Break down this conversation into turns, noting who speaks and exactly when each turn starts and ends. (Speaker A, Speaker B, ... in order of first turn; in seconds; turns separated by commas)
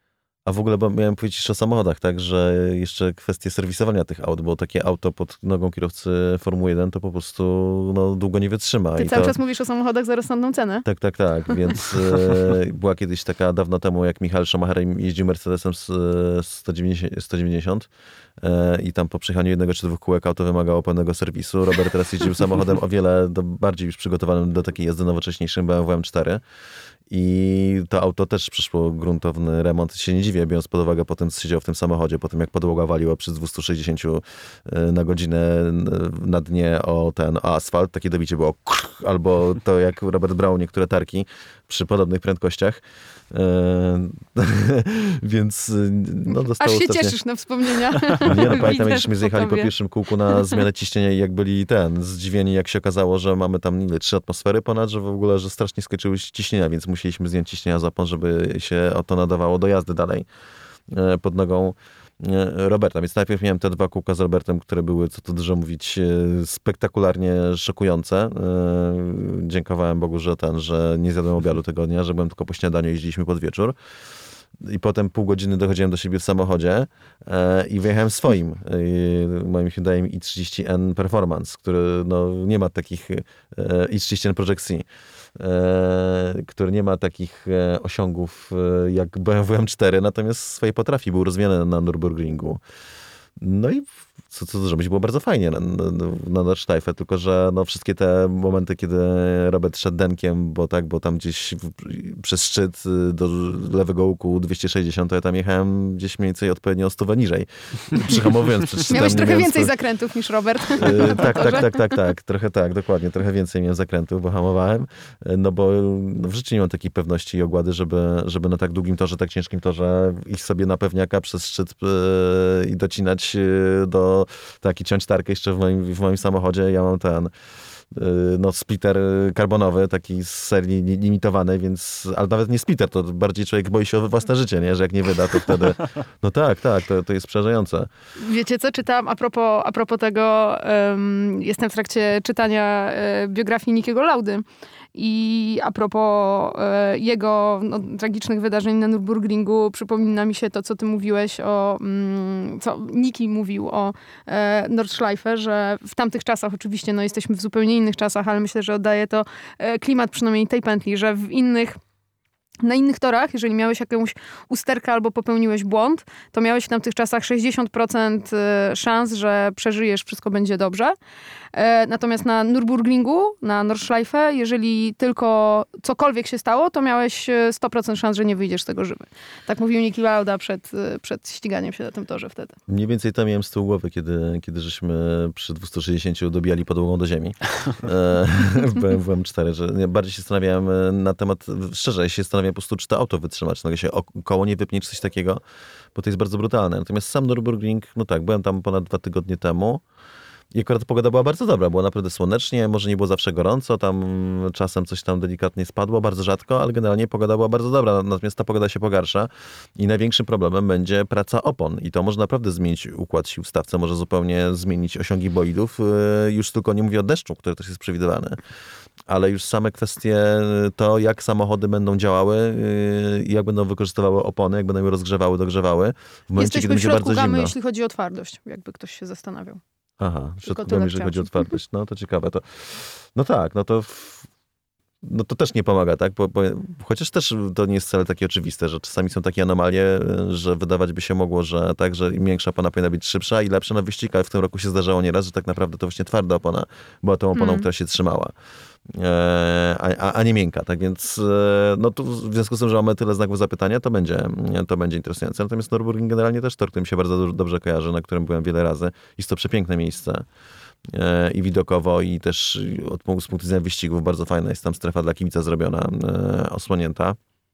Speaker A: 0.5-9.3, Speaker B: 9.0-10.8, Speaker A: 10.8-17.9, Speaker A: 18.4-26.4, Speaker A: 27.1-47.1, Speaker B: 46.6-49.7, Speaker A: 48.2-60.3, Speaker B: 50.3-50.6, Speaker A: 60.9-73.8, Speaker A: 74.6-92.6, Speaker A: 93.4-109.7, Speaker B: 108.8-111.8, Speaker A: 110.7-127.3, Speaker A: 127.9-137.9, Speaker B: 138.2-161.8, Speaker B: 162.6-170.9, Speaker B: 171.5-182.6, Speaker A: 182.7-195.4, Speaker A: 195.9-199.8, Speaker A: 200.5-218.4, Speaker A: 219.1-227.5, Speaker B: 226.4-229.6, Speaker A: 230.0-234.2, Speaker B: 230.4-231.6, Speaker A: 235.0-248.3, Speaker B: 247.3-247.7, Speaker A: 248.9-260.3, Speaker A: 260.9-267.2